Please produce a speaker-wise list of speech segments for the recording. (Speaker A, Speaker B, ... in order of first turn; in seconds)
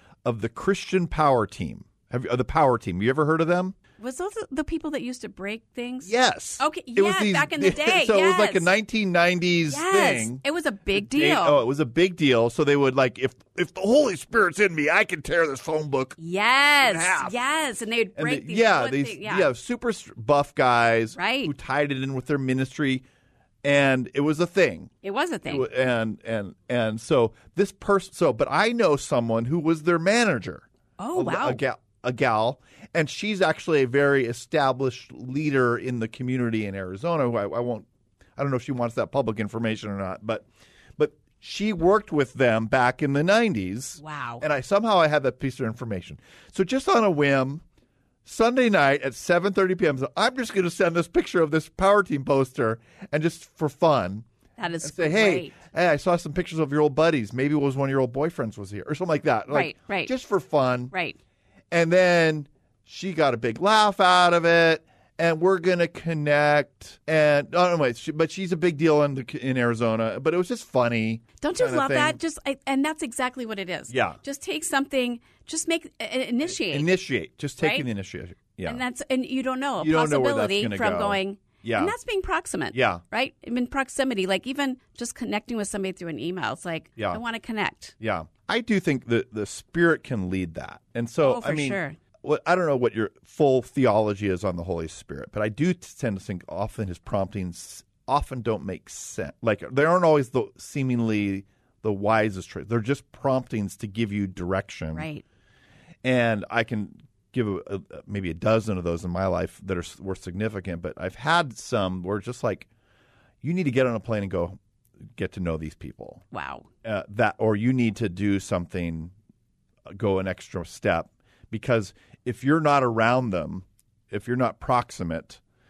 Speaker A: 0.2-3.7, 6.0-16.2, 16.8-17.4, 18.1-23.0, 23.6-24.9, 25.5-40.5, 41.0-47.6, 48.2-54.2, 54.8-60.9, 61.7-72.2, 73.9-74.2, 76.5-78.8, 79.8-81.9, 82.7-83.0, 88.0-105.1, 106.0-112.7, 113.4-114.6, 115.1-116.2, 116.8-119.1, 119.9-125.4
Speaker B: 4.0-8.7, 9.7-11.6, 16.2-19.5, 21.1-21.5, 25.0-25.7, 31.0-31.6, 44.0-44.4, 54.6-55.5, 59.5-60.1, 60.9-61.2, 71.4-76.9, 77.6-77.9, 78.6-88.0, 91.2-92.0, 104.9-105.2, 116.3-116.7